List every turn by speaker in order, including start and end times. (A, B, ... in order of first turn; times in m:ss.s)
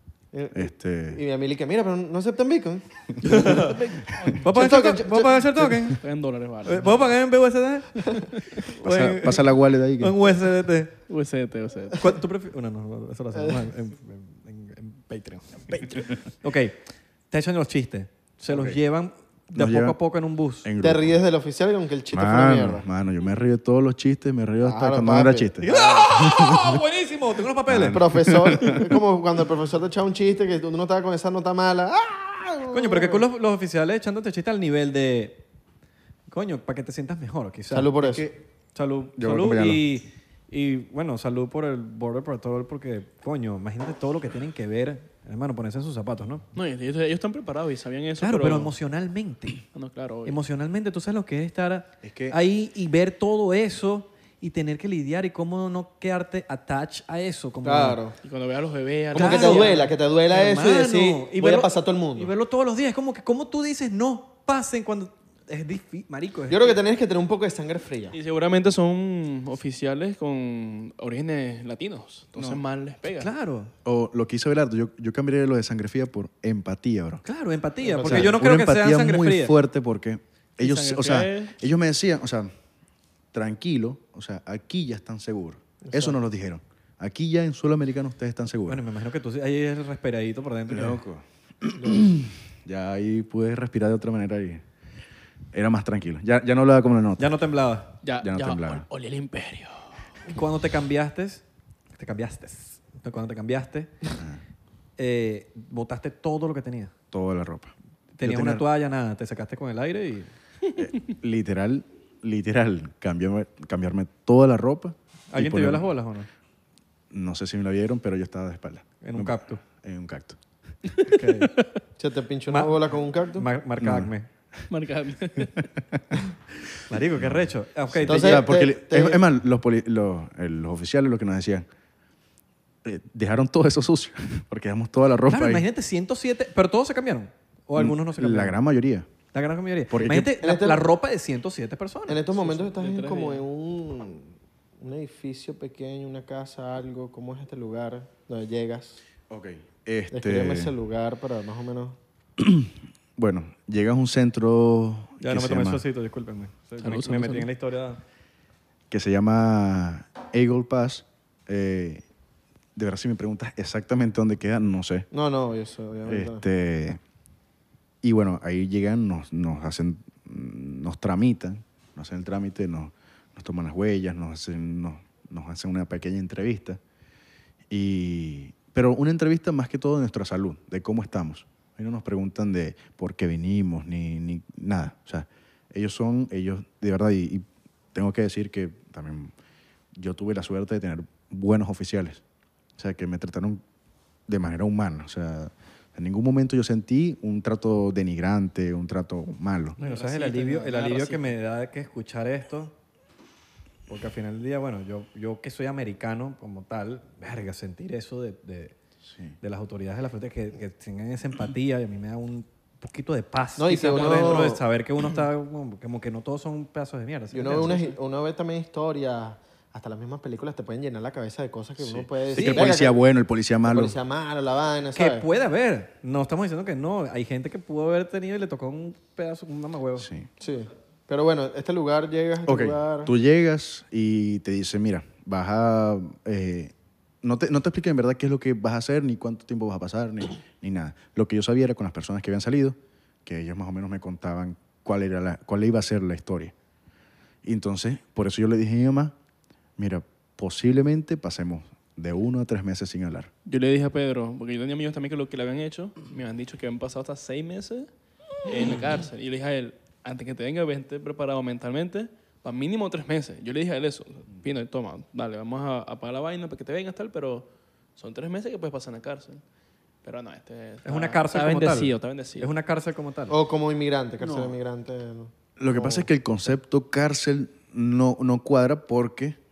0:00.3-0:03.7 A
0:00.5-0:01.2 B
0:03.2-0:06.0 C
0:03.5-0:04.2 D
0:04.5-0:05.8 A
0:06.0-0:07.0 D
0:06.6-0:11.0 C
0:08.8-0:10.2 B
0:11.1-0:12.0 D
0:12.0-0:20.7 C
0:18.5-0:18.8 B
0:19.5-0:20.0 B
0:20.6-0:21.2 B
0:20.8-0:22.9 A
0:22.1-0:26.8 B
0:24.6-0:26.1 A
0:25.6-0:28.3 C
0:27.7-0:28.8 B
0:27.9-0:33.2 A
0:32.7-0:35.4 C
0:36.3-0:38.0 C
0:37.7-0:38.3 A
0:37.8-0:38.4 B
0:38.8-0:46.4 C
0:39.2-0:39.8 B
0:46.5-0:48.7 D
0:48.2-0:49.6 C
0:49.7-0:50.4 D
0:50.3-0:58.0 C
0:52.0-0:52.4 B
0:57.6-0:58.2 A
0:58.2-0:59.9 D
0:59.1-1:02.3 A
0:59.1-1:06.8 C
1:06.5-1:08.2 A
1:08.1-1:13.3 D
1:12.4-1:12.6 B
1:13.2-1:13.7 C
1:13.8-1:17.2 B
1:17.3-1:19.5 C
1:17.8-1:18.3 A
1:18.0-1:22.5 B
1:20.6-1:21.6 D
1:23.3-1:28.8 B
1:25.8-1:26.2 A
1:28.7-1:31.0 C
1:30.7-1:34.6 B
1:35.5-1:37.3 B
1:37.2-1:38.0 C
1:38.0-1:39.9 D
1:38.2-1:38.9 B
1:40.3-1:44.2 C
1:45.0-1:46.9 C
1:47.1-1:48.6 B
1:48.2-1:50.3 C
1:50.8-1:55.9 B
1:55.3-1:56.3 C
1:57.1-2:00.4 B
1:59.0-1:59.6 C
2:01.0-2:01.6 C
2:02.0-2:03.5 A
2:02.5-2:02.8 C
2:03.4-2:04.3 C
2:03.8-2:04.1 B
2:04.7-2:05.7 D
2:06.9-2:08.4 C
2:07.2-2:11.7 B
2:08.1-2:09.2 A
2:12.8-2:15.7 B
2:15.3-2:18.6 C
2:17.8-2:19.1 B
2:19.3-2:22.2 C
2:19.9-2:20.3 B
2:20.4-2:20.8 A
2:22.1-2:29.0 A
2:22.3-2:23.4 D
2:29.3-2:30.7 B
2:30.1-2:32.0 A
2:32.4-2:35.8 B
2:35.2-2:38.0 C
2:36.8-2:37.5 D
2:38.9-2:42.0 B
2:42.8-2:45.1 B
2:45.1-2:46.4 A
2:46.1-2:47.0 B
2:48.0-2:56.8 B
2:57.7-3:09.3 B
3:10.0-3:12.2 B
3:12.8-3:13.6 B
3:14.3-3:19.8 B
3:19.8-3:21.3 D
3:19.8-3:22.7 C
3:23.9-3:28.8 C
3:29.1-3:29.4 B
3:29.4-3:37.7 C
3:33.6-3:34.6 A
3:33.9-3:34.5 D
3:37.3-3:43.0 A
3:37.5-3:38.0 D
3:41.8-3:44.0 B
3:42.3-3:42.7 C
3:43.6-3:45.3 A
3:45.0-3:50.1 C
3:50.0-3:50.3 B
3:50.4-3:53.1 A
3:52.5-4:06.5 B
4:07.4-4:09.1 B
4:09.8-4:13.3 B
4:13.5-4:17.9 D
4:18.4-4:29.4 D
4:30.0-4:32.5 D
4:30.8-4:33.4 C
4:33.3-4:36.1 A
4:34.2-4:34.5 B
4:35.6-4:39.4 B